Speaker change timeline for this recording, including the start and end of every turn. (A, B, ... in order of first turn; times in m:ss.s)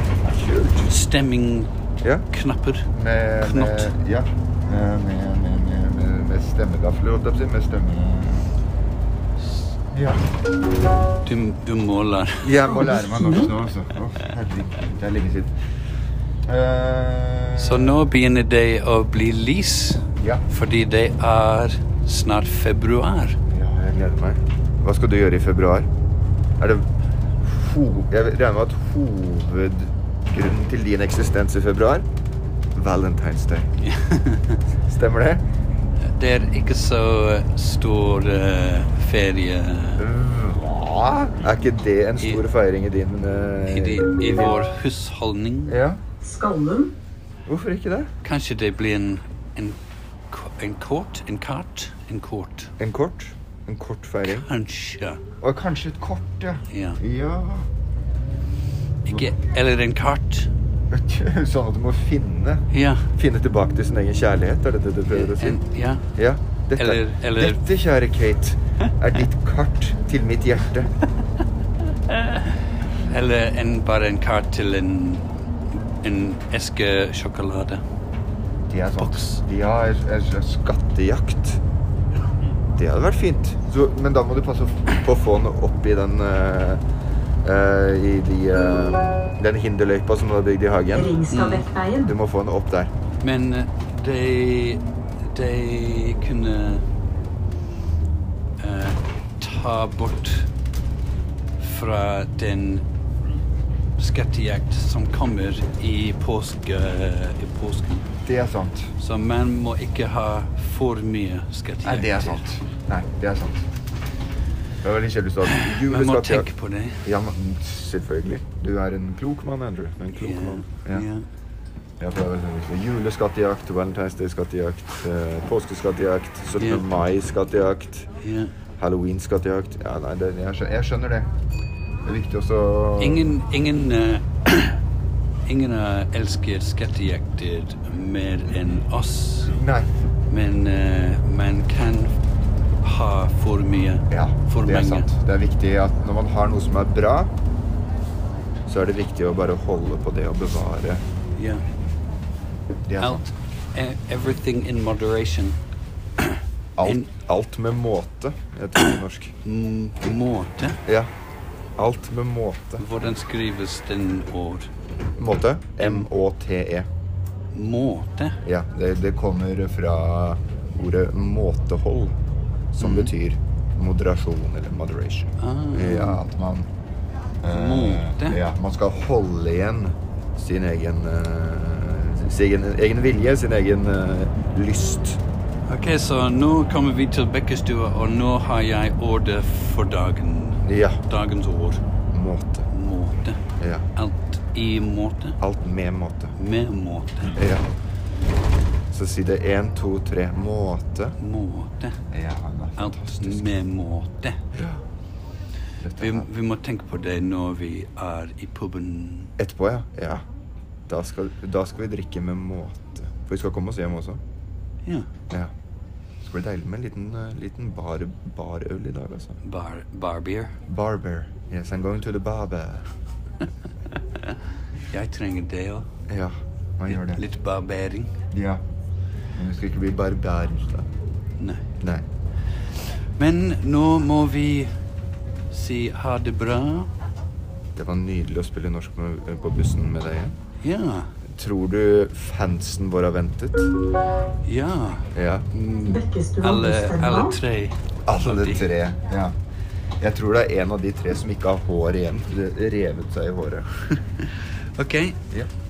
0:00.2-0:00.9 A
0:00.9-0:01.7 B
0:02.0-0:02.3 A
0:02.3-0:02.9 B
0:02.9-0:08.6 A
0:03.4-0:03.9 B
0:09.9-0:10.2 A
0:11.2-0:12.7 B
0:12.4-0:15.5 A
0:12.8-0:13.2 C
0:16.5-0:18.0 A
0:17.6-0:23.4 B
0:20.2-0:20.4 A
0:23.5-0:25.9 A
0:26.6-0:26.9 A
0:27.4-0:32.1 A
0:32.8-0:33.7 A
0:33.8-0:34.6 B
0:34.9-0:35.4 A
0:36.0-0:40.0 B
0:40.0-0:44.6 A
0:43.7-0:45.8 B
0:45.7-0:46.0 A
0:46.2-0:46.9 C
0:47.5-0:48.1 A
0:48.2-0:49.8 B
0:50.3-0:52.7 B
0:52.8-0:54.5 A
0:54.2-0:55.2 B
0:55.4-0:57.7 A
0:56.7-0:57.0 B
0:59.1-1:00.5 B
1:00.9-1:05.6 A
1:02.7-1:03.1 B
1:05.1-1:06.0 B
1:06.2-1:10.9 A
1:06.8-1:07.6 B
1:12.1-1:15.3 B
1:16.0-1:17.8 B
1:18.7-1:21.6 A
1:19.0-1:19.4 B
1:22.8-1:26.8 A
1:27.4-1:31.3 A
1:31.0-1:32.1 C
1:31.3-1:31.7 B
1:32.0-1:32.9 A
1:33.2-1:36.8 B
1:38.6-1:40.5 B
1:41.6-1:42.8 B
1:44.0-1:48.0 B
1:48.3-1:48.9 A
1:49.0-1:52.5 B
1:51.8-1:53.7 A
1:54.8-1:56.5 A
1:55.5-1:57.0 B
1:57.0-2:01.1 A
2:00.2-2:01.2 B
2:02.0-2:08.1 A
2:06.6-2:06.9 B
2:08.2-2:08.5 B
2:08.8-2:11.3 A
2:12.0-2:13.4 A
2:13.0-2:14.8 B
2:15.5-2:19.6 B
2:19.5-2:19.9 A
2:20.3-2:22.2 B
2:22.8-2:25.1 B
2:24.1-2:27.3 A
2:28.7-2:31.0 A
2:31.4-2:31.6 B
2:32.9-2:33.2 A
2:33.0-2:35.6 B
2:36.2-2:37.0 B
2:36.8-2:39.3 A
2:39.4-2:40.8 B
2:41.8-2:42.9 A
2:42.8-2:44.7 B
2:45.2-2:46.9 A
2:45.8-2:46.1 B
2:47.5-2:48.4 B
2:48.4-2:52.1 A
2:52.7-2:56.7 A
2:52.8-2:53.1 B
2:55.4-2:56.2 B
2:57.4-3:05.2 A
2:57.5-2:58.4 B
3:05.7-3:11.8 B
3:10.6-3:11.0 A
3:12.1-3:12.7 A
3:12.7-3:13.4 B
3:13.6-3:13.9 A
3:14.0-3:15.4 B
3:15.4-3:16.4 A
3:16.4-3:17.4 B
3:17.3-3:17.6 A
3:18.9-3:21.2 A
3:21.2-3:22.0 B
3:22.1-3:23.6 A
3:22.8-3:24.4 B
3:24.5-3:24.8 A
3:25.8-3:26.3 A
3:26.0-3:29.4 B
3:29.4-3:30.2 A
3:30.9-3:34.2 A
3:36.2-3:39.4 A
3:39.4-3:40.6 B
3:40.7-3:42.9 A
3:44.9-3:45.9 B
3:46.1-3:47.2 A
3:46.9-3:48.1 B
3:48.3-3:48.6 A
3:49.4-3:50.9 A
3:51.4-3:51.6 B
3:51.8-3:52.1 A
3:53.2-3:54.7 B
3:55.5-3:56.9 B
3:57.8-4:00.4 A
4:00.6-4:01.1 B
4:01.2-4:03.7 A
4:04.4-4:08.7 B
4:05.1-4:05.5 A
4:05.9-4:07.4 C
4:08.1-4:09.3 A
4:10.0-4:13.7 A
4:14.8-4:15.2 B